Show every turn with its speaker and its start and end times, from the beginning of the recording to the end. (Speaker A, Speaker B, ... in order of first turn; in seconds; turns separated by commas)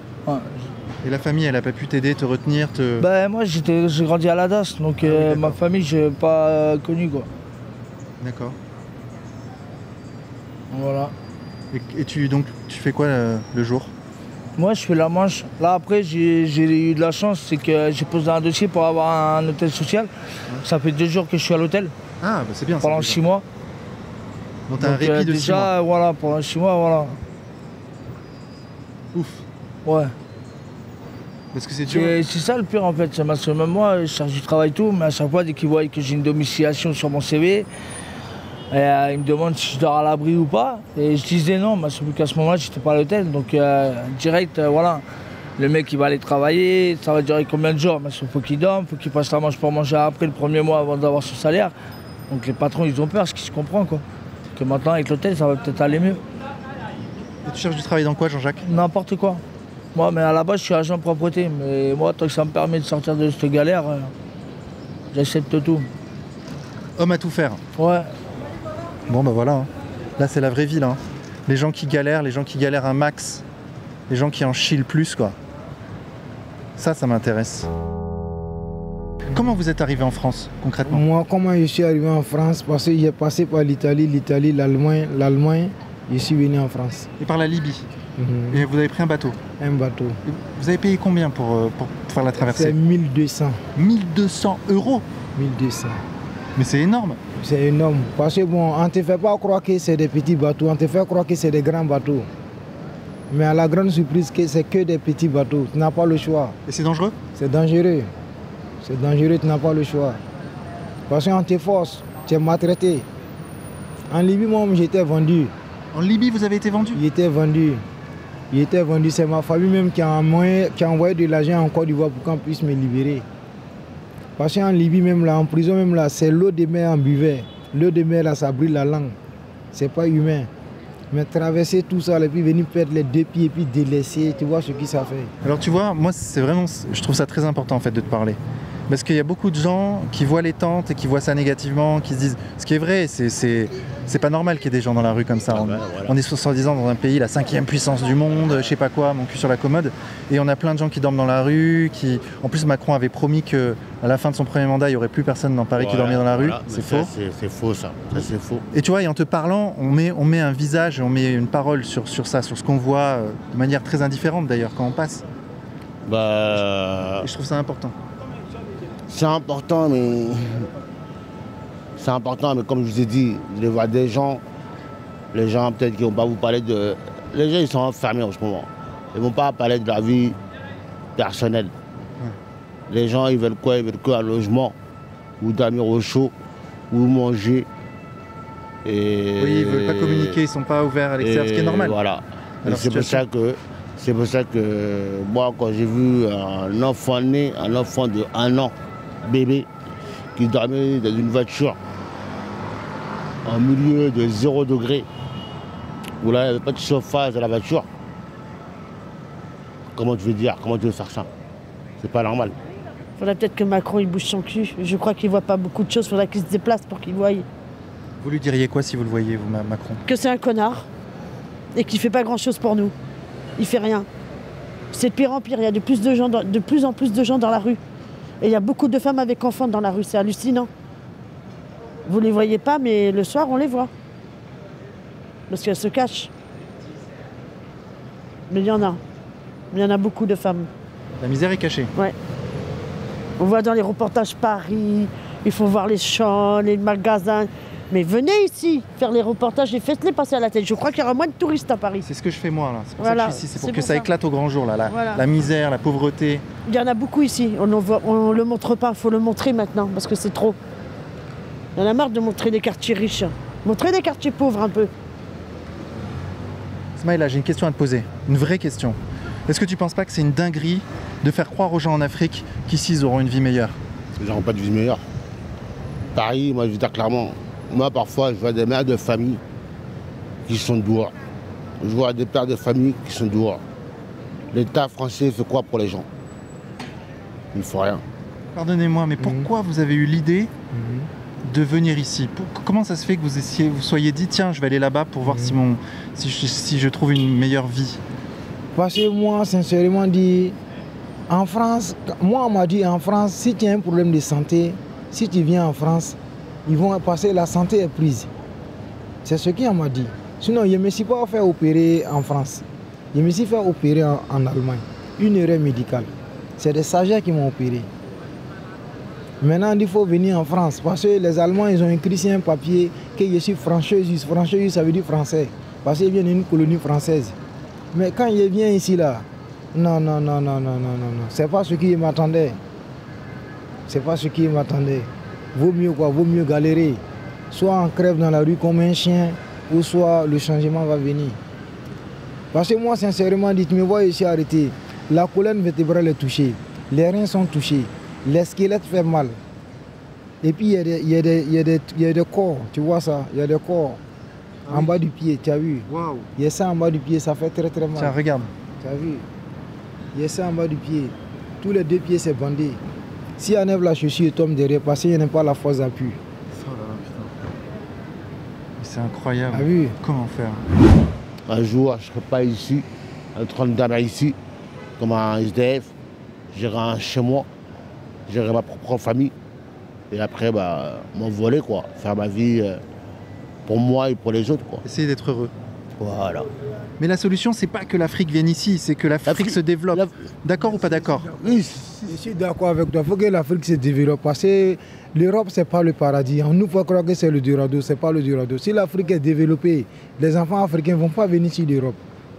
Speaker A: 0.2-0.7, Speaker B: 1.0-3.0, Speaker A: 3.0-7.3, Speaker B: 5.0-5.6, Speaker B: 8.2-8.6, Speaker A: 10.7-11.1, Speaker B: 11.7-13.9, Speaker A: 14.6-20.1, Speaker A: 20.6-21.9, Speaker B: 22.2-23.2, Speaker A: 22.8-23.4, Speaker B: 24.7-25.7, Speaker A: 24.8-27.2, Speaker B: 29.1-29.4, Speaker A: 29.8-30.1, Speaker B: 31.5-32.1, Speaker A: 31.9-37.7, Speaker A: 38.7-45.0, Speaker A: 45.6-51.7, Speaker A: 52.3-54.0, Speaker A: 54.5-56.2, Speaker B: 57.4-58.6, Speaker A: 58.6-59.4, Speaker A: 59.9-64.1, Speaker A: 65.1-65.9, Speaker B: 67.0-67.6, Speaker A: 67.8-68.1, Speaker B: 69.1-73.4, Speaker B: 74.1-75.3, Speaker B: 76.8-77.7, Speaker B: 79.3-81.0, Speaker C: 80.8-87.1, Speaker B: 87.2-87.8, Speaker C: 88.2-88.7, Speaker B: 88.5-89.4, Speaker C: 89.6-90.2, Speaker B: 90.2-92.8, Speaker C: 92.4-93.6, Speaker B: 93.8-95.0, Speaker C: 95.3-96.0, Speaker B: 96.5-97.2, Speaker C: 97.4-102.3, Speaker C: 103.3-106.6, Speaker B: 106.7-107.2, Speaker C: 107.3-108.1, Speaker C: 108.8-110.2, Speaker C: 111.1-113.1, Speaker C: 114.1-115.5, Speaker B: 115.9-117.0, Speaker C: 116.9-117.8, Speaker C: 118.5-123.2, Speaker C: 124.4-129.2, Speaker C: 129.7-130.5, Speaker C: 131.1-135.3, Speaker B: 135.4-138.4, Speaker B: 138.9-157.1, Speaker D: 145.5-146.2, Speaker D: 148.3-148.7, Speaker D: 155.7-158.6, Speaker B: 158.7-165.2, Speaker D: 166.1-167.3, Speaker B: 167.2-167.9, Speaker D: 169.1-170.7, Speaker D: 172.0-174.4, Speaker D: 175.3-180.4, Speaker D: 181.2-181.7, Speaker D: 182.9-184.7, Speaker D: 185.4-186.3, Speaker D: 186.9-187.7, Speaker D: 188.8-190.4, Speaker B: 189.4-192.0, Speaker D: 191.2-199.7, Speaker B: 192.6-193.2, Speaker D: 200.3-201.8, Speaker D: 203.4-205.1, Speaker D: 206.2-207.9, Speaker D: 209.9-211.3, Speaker D: 212.0-212.5, Speaker E: 213.2-217.4, Speaker B: 218.2-220.0, Speaker E: 220.0-220.9, Speaker E: 221.7-222.9, Speaker E: 223.6-224.1, Speaker E: 224.9-227.8, Speaker E: 228.4-230.7, Speaker E: 232.1-233.9, Speaker E: 235.5-236.3, Speaker E: 238.5-239.0, Speaker E: 239.7-240.7, Speaker B: 241.2-241.9, Speaker E: 243.4-252.0, Speaker B: 252.0-256.4, Speaker E: 253.0-254.1, Speaker E: 254.9-255.2, Speaker E: 256.6-260.6, Speaker E: 261.8-264.9, Speaker B: 267.0-269.0, Speaker B: 269.5-273.7, Speaker D: 274.1-275.0, Speaker D: 276.1-279.4, Speaker D: 280.4-281.1, Speaker D: 281.8-283.6, Speaker D: 284.5-286.1, Speaker D: 287.5-288.0, Speaker B: 288.5-290.5, Speaker C: 289.2-289.5, Speaker C: 290.7-291.1, Speaker B: 291.4-298.0, Speaker C: 295.2-295.6, Speaker C: 298.7-300.6, Speaker C: 301.3-308.3, Speaker C: 309.2-317.9, Speaker C: 319.4-327.4, Speaker C: 327.9-332.6, Speaker C: 333.9-341.4, Speaker C: 342.5-349.4, Speaker C: 350.4-354.0, Speaker B: 354.6-355.0, Speaker C: 354.7-358.1, Speaker B: 355.9-356.3, Speaker B: 358.0-358.5, Speaker C: 358.8-359.2, Speaker C: 360.1-362.8, Speaker C: 363.4-366.2, Speaker B: 366.6-367.3, Speaker B: 368.8-370.7, Speaker C: 369.5-369.9, Speaker D: 371.5-374.4, Speaker D: 375.0-375.9, Speaker D: 376.5-377.5, Speaker D: 378.3-379.3, Speaker D: 380.1-382.8, Speaker D: 383.6-384.8, Speaker B: 384.8-385.5, Speaker D: 386.0-386.5, Speaker B: 387.0-391.3, Speaker D: 389.2-390.1, Speaker C: 390.8-402.0, Speaker D: 391.3-392.1